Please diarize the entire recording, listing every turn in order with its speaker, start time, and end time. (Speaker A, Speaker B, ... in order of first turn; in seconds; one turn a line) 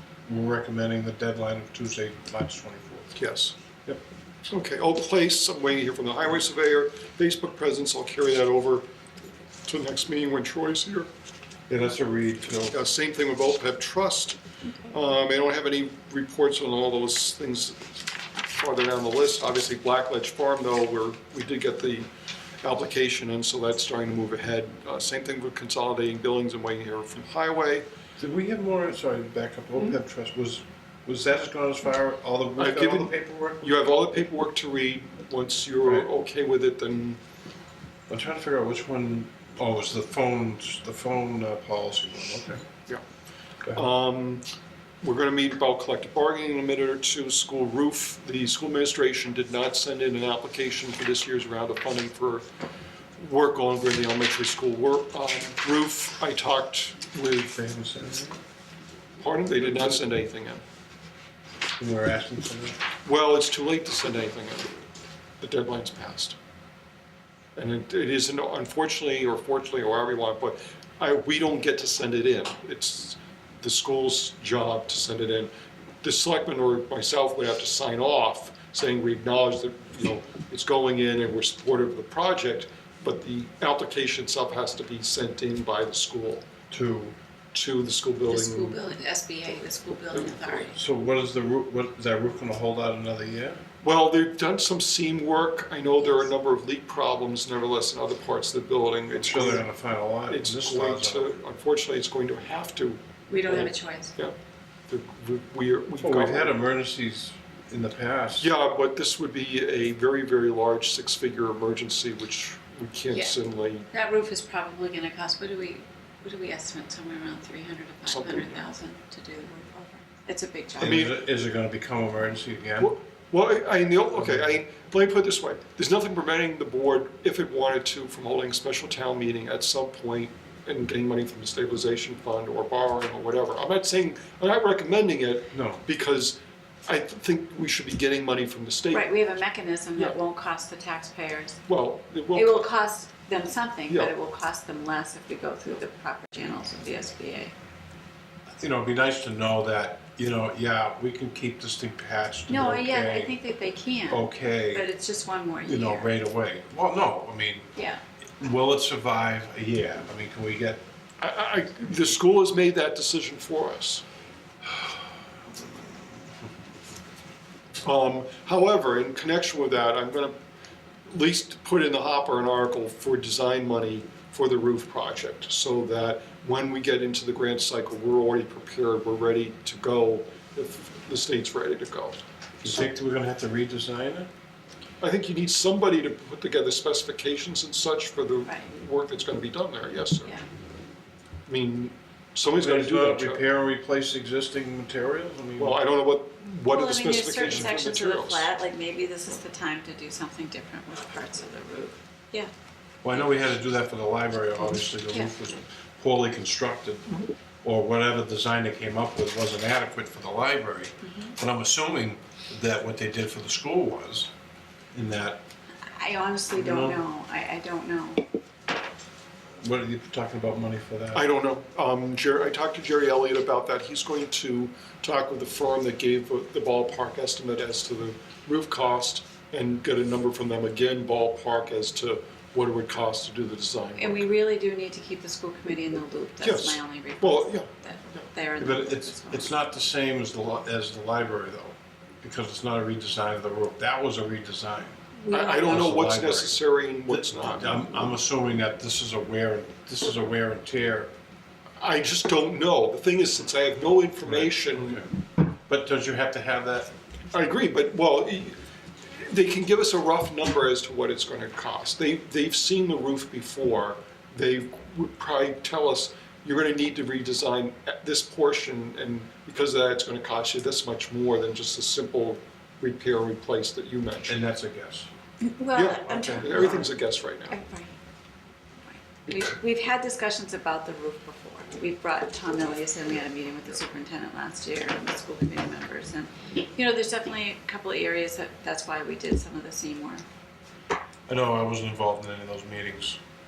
Speaker A: 0.3-3.1
Speaker B: 3.1-8.8
Speaker B: 9.7-11.1
Speaker A: 11.7-12.8
Speaker B: 12.7-14.4
Speaker B: 14.9-17.9
Speaker B: 18.5-22.1
Speaker B: 22.6-27.9
Speaker A: 28.2-33.7
Speaker B: 32.6-37.2
Speaker A: 38.1-42.6
Speaker B: 43.7-44.4
Speaker B: 45.0-52.5
Speaker B: 53.2-57.6
Speaker A: 57.5-58.4
Speaker B: 59.2-60.6
Speaker A: 61.8-62.8
Speaker B: 63.0-64.7
Speaker B: 65.4-66.4
Speaker B: 67.6-75.5
Speaker B: 76.0-86.5
Speaker A: 86.7-87.2
Speaker B: 87.5-88.8
Speaker C: 88.3-90.8
Speaker A: 90.7-93.6
Speaker B: 93.8-99.7
Speaker A: 99.2-101.3
Speaker B: 100.3-104.3
Speaker C: 103.3-104.2
Speaker B: 104.9-106.5
Speaker A: 106.0-108.5
Speaker B: 108.4-113.9
Speaker C: 113.1-113.4
Speaker C: 113.9-121.0
Speaker B: 118.1-118.6
Speaker A: 120.8-123.0
Speaker B: 120.9-121.2
Speaker B: 122.8-139.1
Speaker A: 124.1-124.6
Speaker A: 135.5-135.8
Speaker C: 138.9-141.6
Speaker B: 141.7-142.7
Speaker C: 142.3-147.5
Speaker A: 148.6-153.4
Speaker C: 152.5-156.1
Speaker A: 154.1-154.9
Speaker A: 155.7-157.7
Speaker C: 157.8-158.0
Speaker A: 158.4-160.8
Speaker B: 161.2-164.0
Speaker B: 167.8-170.3
Speaker B: 171.1-182.9
Speaker A: 182.6-184.3
Speaker B: 185.0-190.3
Speaker B: 191.5-193.4
Speaker A: 192.5-195.8
Speaker B: 195.6-198.5
Speaker C: 196.7-202.5
Speaker A: 203.0-214.3
Speaker C: 203.1-203.4
Speaker C: 211.0-211.3
Speaker A: 214.9-215.4
Speaker C: 216.0-218.2
Speaker A: 216.6-217.0
Speaker A: 219.6-221.3
Speaker B: 221.1-234.3
Speaker C: 234.0-239.5
Speaker B: 236.4-237.7
Speaker A: 238.6-245.0
Speaker B: 245.2-247.8
Speaker C: 245.3-245.8
Speaker A: 245.6-251.1
Speaker B: 251.8-255.0
Speaker A: 254.2-255.1
Speaker A: 255.7-256.9
Speaker B: 257.3-274.4
Speaker A: 274.3-275.1
Speaker C: 275.4-276.9
Speaker B: 275.7-277.6
Speaker A: 276.1-276.8
Speaker C: 277.5-277.9
Speaker C: 278.9-290.2
Speaker A: 291.3-293.2